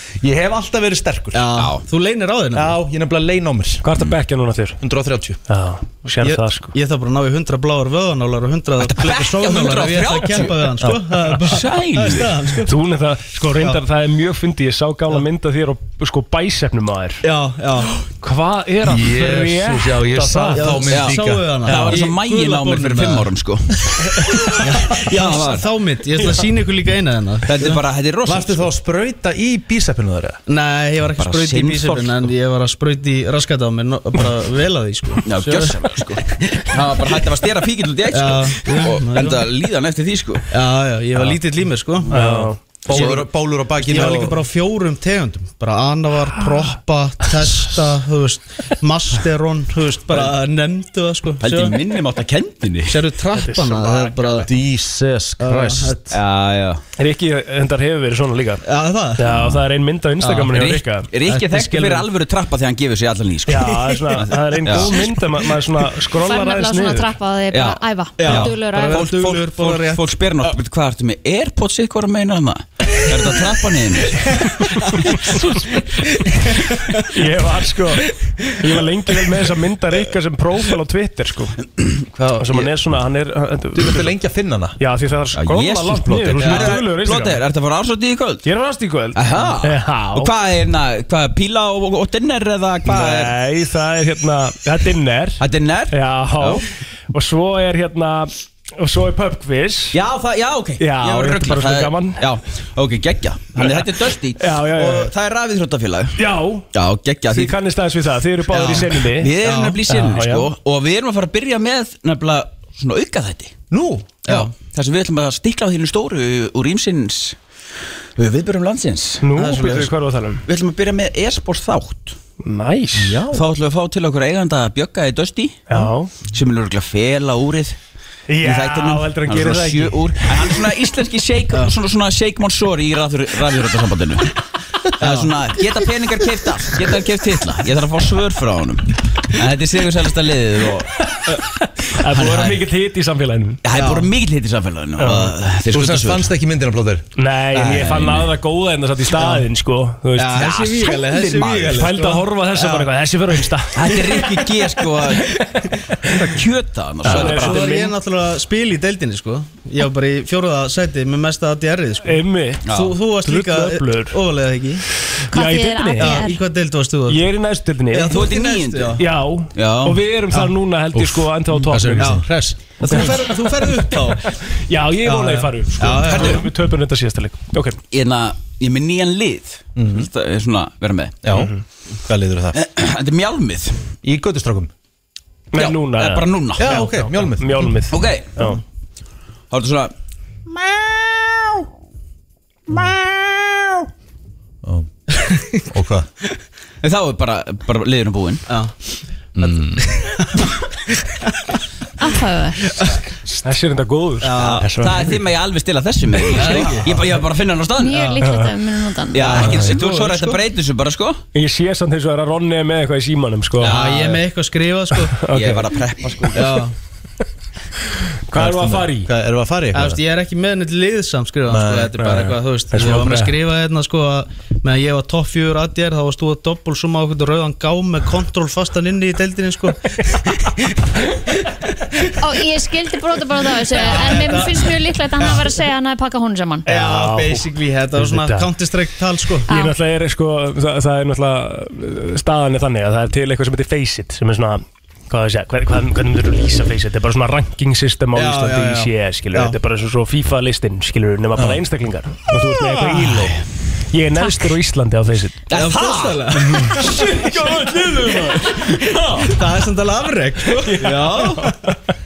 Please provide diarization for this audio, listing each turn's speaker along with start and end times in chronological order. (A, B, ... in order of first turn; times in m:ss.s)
0:00.2-0:01.4 A
0:01.3-0:02.8 B
0:01.5-0:01.9 C
0:02.5-0:03.8 A
0:03.8-0:04.8 D
0:04.8-0:05.4 A
0:05.5-0:06.7 D
0:06.1-0:12.8 B
0:08.8-0:10.7 C
0:10.8-0:11.1 A
0:11.4-0:12.4 C
0:12.7-0:17.2 D
0:13.6-0:13.8 B
0:17.2-0:17.9 B
0:18.2-0:20.9 D
0:18.8-0:21.9 A
0:20.6-0:23.3 B
0:20.9-0:25.7 C
0:24.5-0:27.8 B
0:27.4-0:28.7 C
0:28.3-0:30.4 A
0:30.5-0:37.3 B
0:31.2-0:32.3 C
0:35.2-0:40.4 C
0:38.1-0:39.5 B
0:40.5-0:52.0 B
0:42.1-0:42.6 D
0:42.2-0:44.4 A
0:42.9-0:43.2 C
0:51.4-0:53.0 C
0:52.9-0:54.5 B
0:53.4-0:54.5 D
0:54.4-0:56.0 A
0:55.4-0:56.1 B
0:56.1-0:56.8 C
0:57.0-1:01.1 D
0:58.6-0:59.3 B
0:59.3-0:59.6 C
1:00.3-1:05.1 C
1:01.3-1:02.0 B
1:03.5-1:07.1 D
1:06.2-1:09.0 E
1:07.5-1:14.3 C
1:08.2-1:10.3 B
1:13.1-1:17.1 B
1:15.0-1:16.4 D
1:17.1-1:21.6 D
1:18.2-1:18.8 B
1:21.8-1:22.7 C
1:22.4-1:24.1 D
1:23.7-1:24.8 A
1:24.8-1:27.4 D
1:25.3-1:28.5 C
1:28.4-1:30.3 D
1:29.1-1:33.4 C
1:32.9-1:40.0 D
1:35.4-1:36.7 C
1:39.9-1:46.2 C
1:40.8-1:42.2 D
1:43.6-1:45.1 D
1:46.2-1:46.7 D
1:46.7-1:47.6 C
1:47.3-1:49.3 D
1:48.5-1:49.8 B
1:49.0-1:53.6 C
1:49.9-1:50.5 D
1:53.7-1:54.2 A
1:54.2-1:54.6 B
1:54.3-1:57.4 C
1:58.2-1:59.3 C
1:59.2-2:00.4 D
1:59.3-1:59.9 B
2:00.4-2:02.2 C
2:02.4-2:03.2 D
2:03.2-2:07.8 C
2:05.7-2:06.1 D
2:08.3-2:10.5 D
2:08.4-2:14.3 C
2:15.0-2:15.4 B
2:15.0-2:20.9 C
2:16.7-2:17.0 B
2:21.0-2:23.6 D
2:22.0-2:22.7 C
2:23.6-2:26.3 C
2:23.7-2:24.1 B
2:25.0-2:25.3 D
2:25.7-2:27.1 A
2:27.2-2:30.6 D
2:27.6-2:28.3 C
2:29.1-2:29.5 B
2:30.2-2:35.7 B
2:30.4-2:31.8 C
2:31.7-2:34.2 D
2:33.7-2:35.2 C
2:36.1-2:37.7 C
2:37.0-2:37.9 D
2:37.0-2:44.8 B
2:42.0-2:42.6 D
2:42.6-2:43.0 C
2:43.2-2:44.2 D
2:45.3-2:46.3 D
2:45.3-2:46.4 E
2:46.0-2:47.3 B
2:47.1-2:48.2 D
2:47.9-2:49.0 B
2:48.1-2:49.0 C
2:49.0-2:52.2 D
2:49.5-2:50.0 C
2:50.9-2:52.6 A
2:52.0-2:52.2 B
2:52.8-2:54.3 B
2:52.9-2:57.8 D
2:55.0-2:56.4 B
2:56.0-2:56.4 A
2:57.9-3:01.2 C
2:59.8-3:00.1 A
3:01.2-3:01.5 A
3:01.3-3:01.6 D
3:02.0-3:02.6 A
3:02.5-3:03.8 C
3:04.0-3:04.7 A
3:05.5-3:08.6 D
3:05.5-3:06.8 C
3:06.6-3:07.8 A
3:07.9-3:08.5 C
3:09.5-3:09.9 C
3:10.5-3:11.3 B
3:12.7-3:13.7 B
3:14.6-3:14.9 A
3:15.1-3:15.6 B
3:15.7-3:16.1 A
3:16.8-3:18.4 C
3:18.5-3:18.7 B
3:19.4-3:19.9 A
3:19.4-3:21.6 B
3:22.0-3:22.6 E
3:22.7-3:23.0 B
3:23.4-3:24.3 D
3:24.2-3:24.8 B
3:24.3-3:28.1 C
3:24.6-3:24.9 A
3:26.3-3:27.2 B
3:27.8-3:29.5 E
3:29.1-3:31.2 C
3:29.2-3:30.4 B
3:31.4-3:33.8 D
3:33.6-3:34.2 C
3:33.6-3:35.2 B
3:35.2-3:35.6 D
3:35.3-3:36.7 C
3:36.3-3:36.7 B
3:38.3-3:39.1 D
3:38.3-3:40.0 A
3:39.7-3:52.1 B
3:41.5-3:42.4 A
3:42.7-3:43.4 D
3:52.2-3:56.7 E
3:53.7-3:55.6 B
3:56.7-3:59.5 B
3:56.7-3:58.5 D
3:59.5-4:13.4 D
3:59.5-3:59.8 E
4:08.1-4:09.6 B
4:13.9-4:15.5 D
4:15.5-4:16.7 C
4:15.5-4:17.6 B
4:16.4-4:19.3 D
4:18.6-4:21.7 B
4:20.6-4:21.8 D